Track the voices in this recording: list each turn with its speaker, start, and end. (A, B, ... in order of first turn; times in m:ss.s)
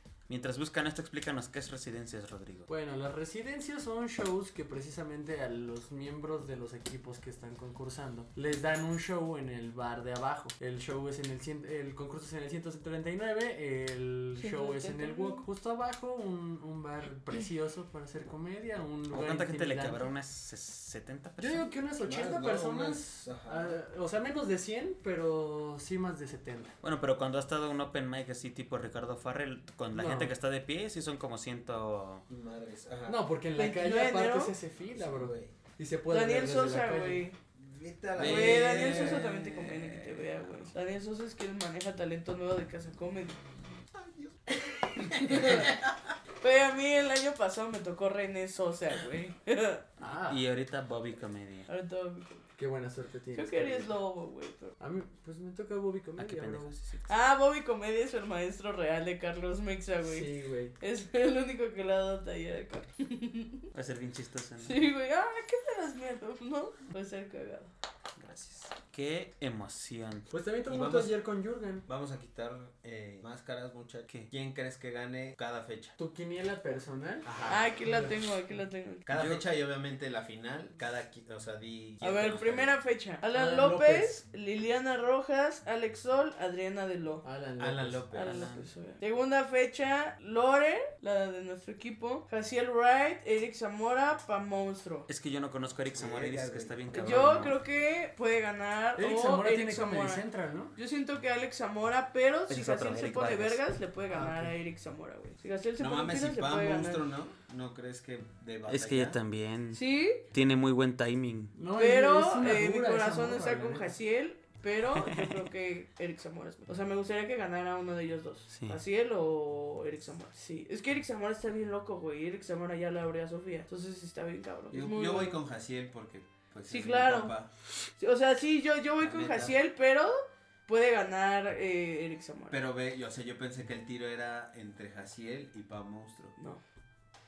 0:00.3-0:02.7 A
0:02.7-0:20.1 B
0:14.4-0:15.4 C
0:19.1-0:21.7 A
0:21.4-0:26.8 B
0:22.0-0:23.8 D
0:26.8-0:32.2 A
0:29.9-0:30.3 B
0:32.3-0:33.2 D
0:33.1-0:37.2 B
0:33.6-0:34.6 C
0:35.0-0:35.5 D
0:36.1-0:37.4 C
0:37.5-0:40.2 D
0:38.2-0:39.2 A
0:38.2-0:43.4 C
0:43.9-0:45.9 D
0:45.0-0:45.7 C
0:46.4-0:49.8 C
0:50.0-0:50.4 B
0:50.2-0:51.7 A
0:51.7-0:52.4 C
0:52.6-0:53.9 B
0:53.3-0:54.7 C
0:54.8-0:56.8 B
0:56.2-0:57.1 A
0:57.1-1:00.3 C
1:00.0-1:00.7 B
1:00.8-1:03.6 C
1:03.7-1:04.8 A
1:04.6-1:07.7 C
1:08.2-1:10.3 A
1:10.3-1:11.8 B
1:10.7-1:11.2 D
1:11.8-1:15.9 D
1:16.0-1:17.3 B
1:17.2-1:17.7 D
1:17.5-1:19.0 C
1:17.8-1:18.2 B
1:19.0-1:22.8 D
1:19.1-1:19.4 A
1:22.0-1:27.2 C
1:23.3-1:24.2 B
1:27.2-1:28.0 B
1:27.6-1:28.5 D
1:28.1-1:35.1 C
1:28.1-1:28.7 A
1:35.1-1:37.6 A
1:35.9-1:37.3 D
1:36.9-1:40.2 C
1:39.0-1:40.7 B
1:40.8-1:47.0 C
1:42.5-1:43.6 A
1:44.1-1:44.5 B
1:45.8-1:49.2 D
1:48.7-1:51.5 A
1:49.7-1:50.2 C
1:51.5-1:53.9 B
1:51.7-2:05.4 C
1:55.0-1:55.4 A
1:58.5-1:58.8 A
2:04.7-2:07.5 D
2:06.7-2:07.3 C
2:08.0-2:12.6 C
2:09.0-2:09.6 D
2:12.5-2:16.3 D